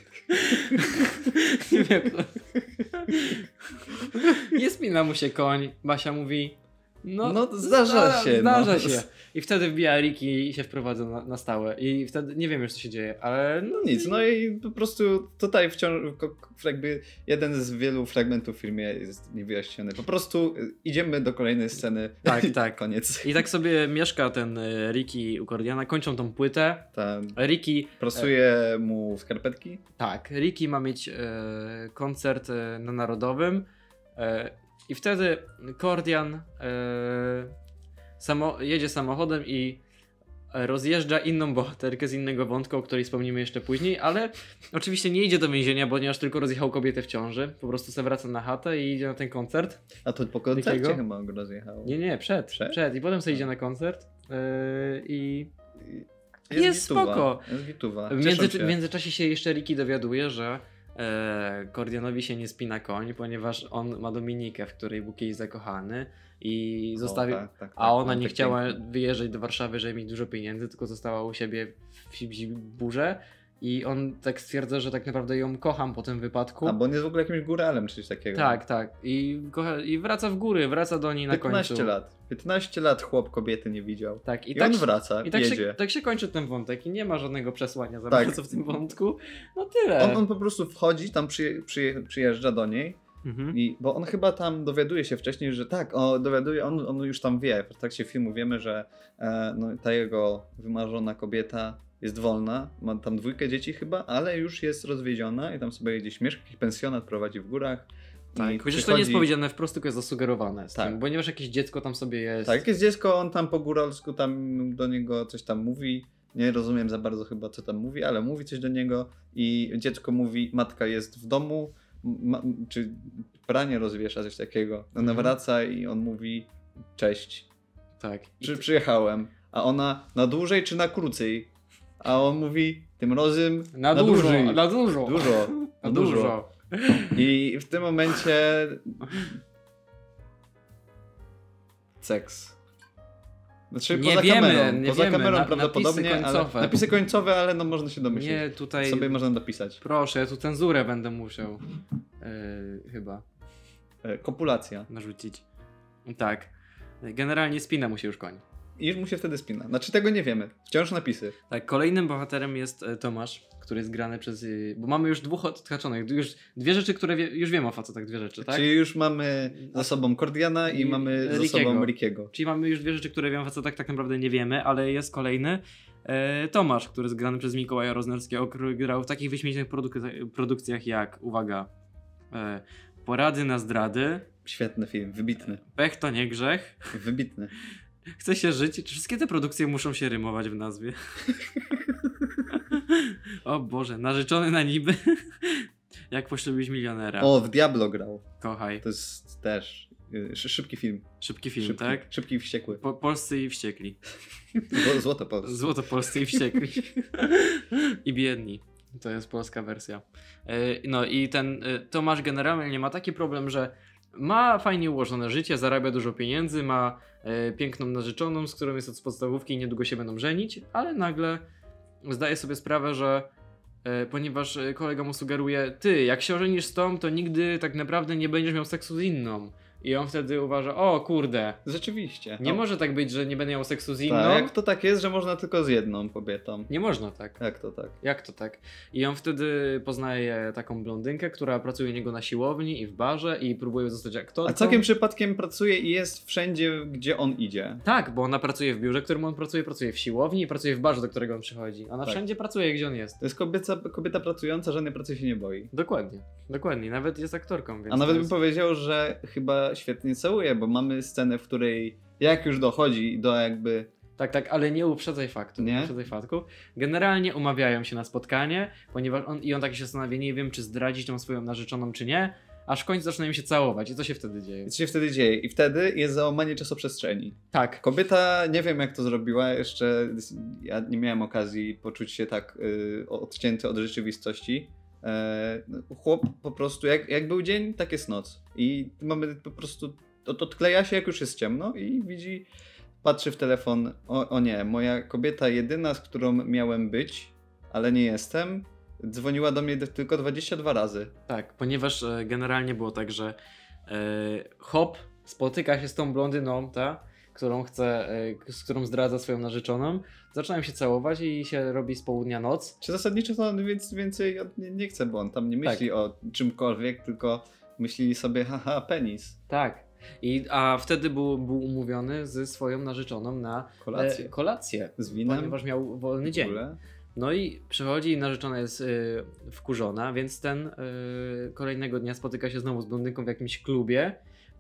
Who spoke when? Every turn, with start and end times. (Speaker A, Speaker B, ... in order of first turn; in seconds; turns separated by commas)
Speaker A: 0.3-14.2, Speaker B: 7.2-9.0, Speaker B: 13.7-23.4, Speaker A: 22.2-28.3, Speaker B: 26.9-27.4, Speaker B: 28.0-29.8, Speaker A: 30.0-37.5, Speaker A: 38.2-39.8, Speaker A: 40.5-49.8, Speaker B: 50.0-52.0, Speaker A: 50.5-51.0, Speaker A: 51.8-55.5, Speaker B: 52.5-52.8, Speaker B: 55.8-58.8, Speaker A: 56.5-57.5, Speaker A: 58.1-76.8, Speaker B: 67.0-68.8, Speaker B: 76.6-78.6, Speaker A: 78.3-81.9, Speaker B: 81.3-85.8, Speaker A: 84.2-90.2, Speaker B: 88.1-88.4, Speaker B: 90.0-109.3, Speaker A: 93.2-93.6, Speaker A: 108.4-112.6, Speaker B: 112.5-127.5, Speaker A: 125.0-125.3, Speaker A: 128.0-128.6, Speaker B: 128.4-136.4, Speaker A: 133.7-137.2, Speaker B: 137.1-139.3, Speaker B: 142.0-142.6, Speaker B: 143.7-149.8, Speaker A: 143.9-146.8, Speaker A: 148.1-149.2, Speaker A: 149.8-151.6, Speaker A: 152.2-153.2, Speaker B: 154.0-154.9, Speaker A: 154.9-155.4, Speaker A: 156.1-156.5, Speaker A: 157.0-158.4, Speaker B: 158.8-161.4, Speaker A: 161.5-168.7, Speaker B: 168.4-172.3, Speaker A: 169.6-170.0, Speaker A: 170.7-181.7, Speaker A: 182.3-184.3, Speaker B: 184.4-185.6, Speaker A: 185.5-186.9, Speaker B: 186.9-187.5, Speaker A: 188.2-191.0, Speaker A: 192.5-197.4, Speaker B: 197.2-198.2, Speaker A: 198.4-198.8, Speaker B: 198.8-201.1, Speaker A: 201.2-202.1, Speaker B: 201.6-202.8, Speaker A: 202.7-204.0, Speaker B: 204.7-205.7, Speaker A: 205.4-221.4, Speaker A: 222.0-223.3, Speaker A: 223.8-231.6, Speaker B: 231.7-232.6, Speaker A: 232.4-234.5, Speaker B: 234.1-236.7, Speaker A: 236.7-237.4, Speaker B: 237.4-238.0, Speaker A: 238.0-244.9, Speaker B: 244.4-247.8, Speaker A: 247.8-253.2, Speaker B: 253.2-255.7, Speaker A: 255.7-258.3, Speaker B: 257.9-263.9, Speaker A: 264.2-274.7, Speaker B: 265.6-265.9, Speaker B: 274.7-292.5, Speaker A: 277.5-277.8, Speaker B: 293.0-301.1, Speaker A: 301.3-303.4, Speaker A: 303.9-312.8, Speaker B: 312.8-319.4, Speaker A: 319.5-326.6, Speaker B: 323.8-324.3, Speaker B: 325.0-325.6, Speaker B: 326.2-326.8, Speaker A: 327.1-334.2